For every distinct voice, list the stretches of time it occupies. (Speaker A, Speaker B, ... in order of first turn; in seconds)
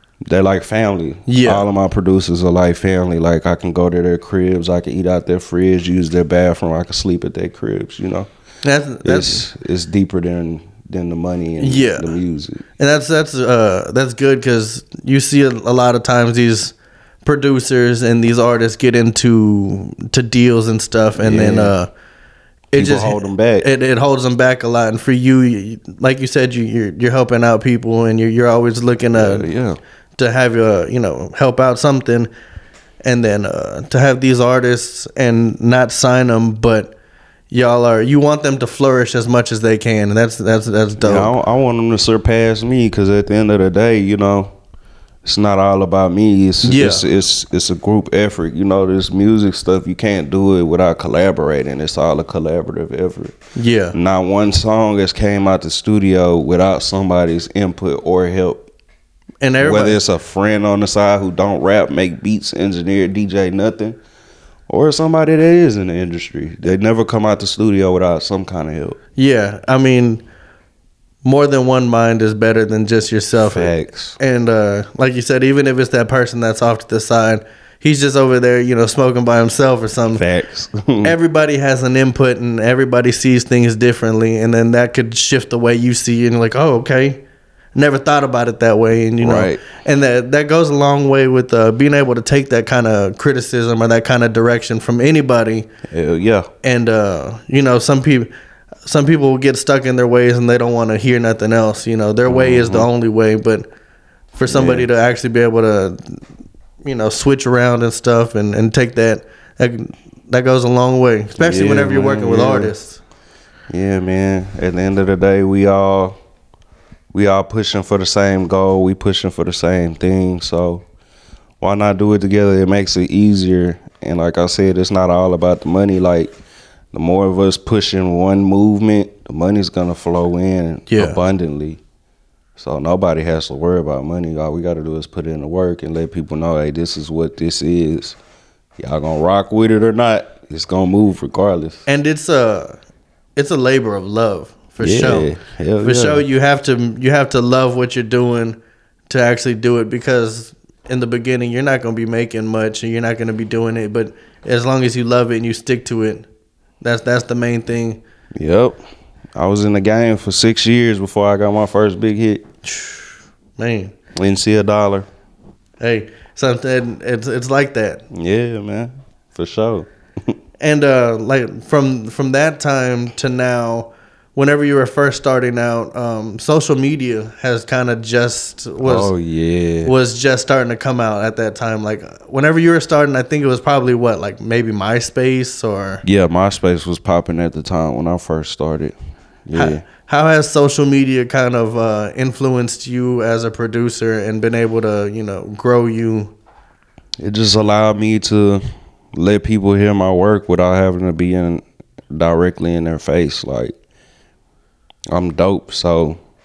Speaker A: 0.3-8.3, 9.0-12.6, 21.2-21.7, 22.7-23.7, 29.1-29.8, 41.0-44.5, 45.2-53.3, 53.9-58.7, 59.6-64.0, 64.7-69.0, 73.4-74.2, 80.1-81.1, 89.2-89.6, 95.9-96.5, 102.3-102.9, 104.5-104.9, 111.3-112.7, 113.7-116.2, 117.1-120.8, 121.6-126.3, 126.9-131.8, 132.6-138.2, 138.8-141.8, 144.8-146.2, 158.3-158.8, 159.3-162.4, 164.1-165.1, 168.1-170.3, 178.8-179.9, 186.0-188.9, 189.5-189.8, 197.2-198.6, 199.1-203.8, 205.1-206.2
Speaker B: 1.3-1.6, 8.6-9.4, 11.6-12.1, 12.8-21.9, 22.7-29.5, 30.2-32.3, 33.0-37.0, 37.5-41.3, 46.6-47.0, 53.5-54.0, 59.4-60.0, 69.2-70.2, 71.2-80.2, 81.0-87.2, 87.7-95.7, 96.6-98.3, 98.8-103.7, 104.3-106.2, 106.8-113.0, 130.9-131.2, 141.9-142.8, 143.3-148.6, 149.1-156.3, 156.8-158.0, 162.6-163.9, 165.8-168.0, 170.6-179.1, 179.8-186.0, 189.5-196.3